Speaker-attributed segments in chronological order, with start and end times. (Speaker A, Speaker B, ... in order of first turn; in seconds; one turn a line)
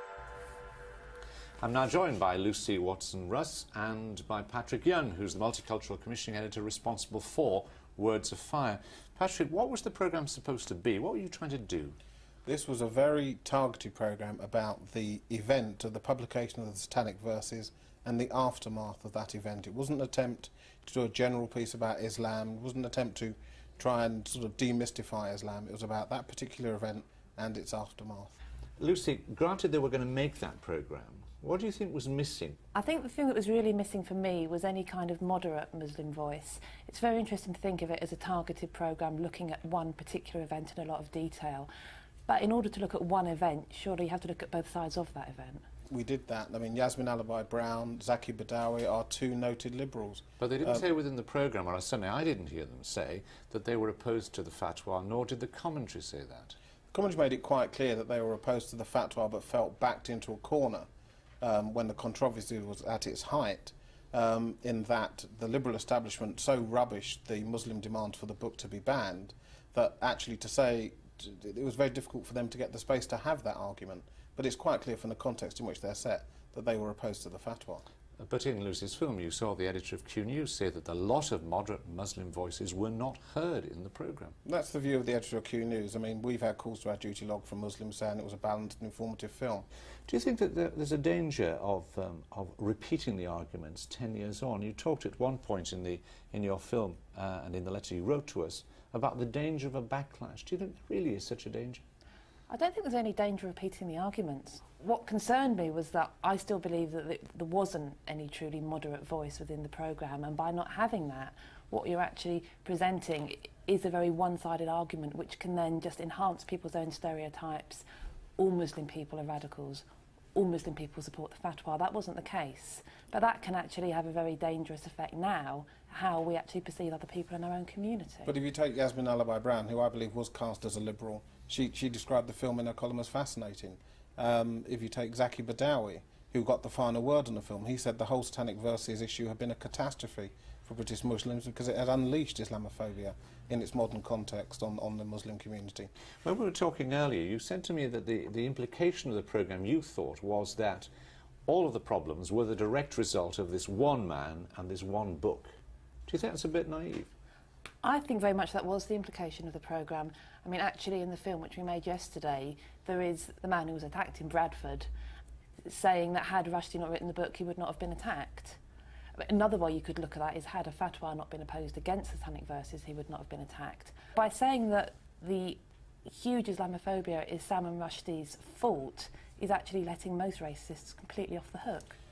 Speaker A: 1.6-12.0
Speaker B: 12.4-28.4
Speaker A: 28.8-32.6
Speaker C: 32.7-41.7
Speaker C: 42.3-45.6
Speaker B: 45.9-50.9
Speaker A: 50.4-56.5
Speaker B: 56.9-60.9
Speaker B: 61.4-77.8
Speaker A: 78.2-84.3
Speaker B: 84.4-89.7
Speaker A: 90.1-101.8
Speaker C: 102.5-117.8
Speaker C: 118.4-128.3
Speaker B: 128.2-145.9
Speaker A: 146.2-150.9
Speaker A: 151.5-155.5
Speaker A: 156.1-157.1
Speaker C: 157.8-164.9
Speaker C: 165.7-168.6
Speaker C: 169.2-182.0